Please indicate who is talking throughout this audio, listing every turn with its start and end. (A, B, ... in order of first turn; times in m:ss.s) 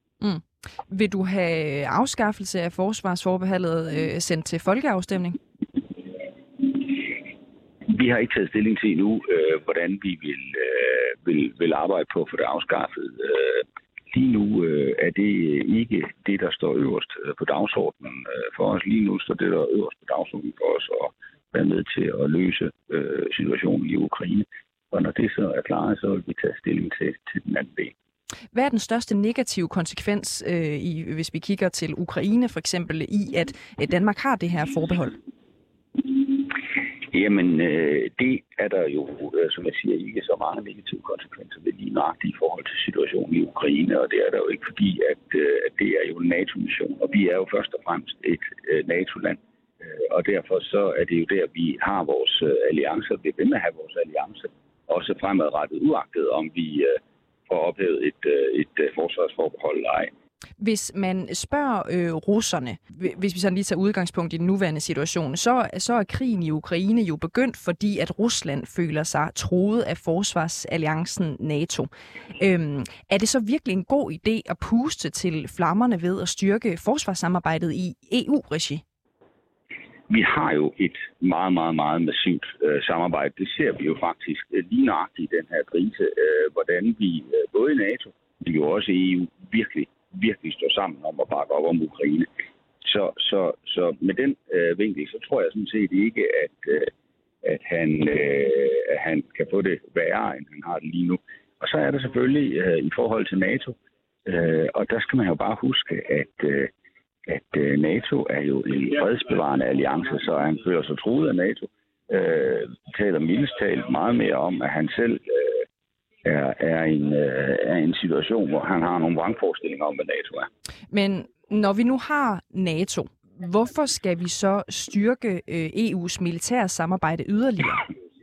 0:00.2-0:05.4 A
0:06.6-0:07.1 B
0:07.9-0:27.9 B
0:28.5-0:35.2 A
0:37.1-1:00.1 B
1:00.6-1:18.8 A
1:20.1-1:32.3 B
1:32.8-1:36.9 B
1:37.4-1:46.7 B
1:47.3-1:55.6 B
1:56.2-2:00.5 B
2:00.9-2:07.8 A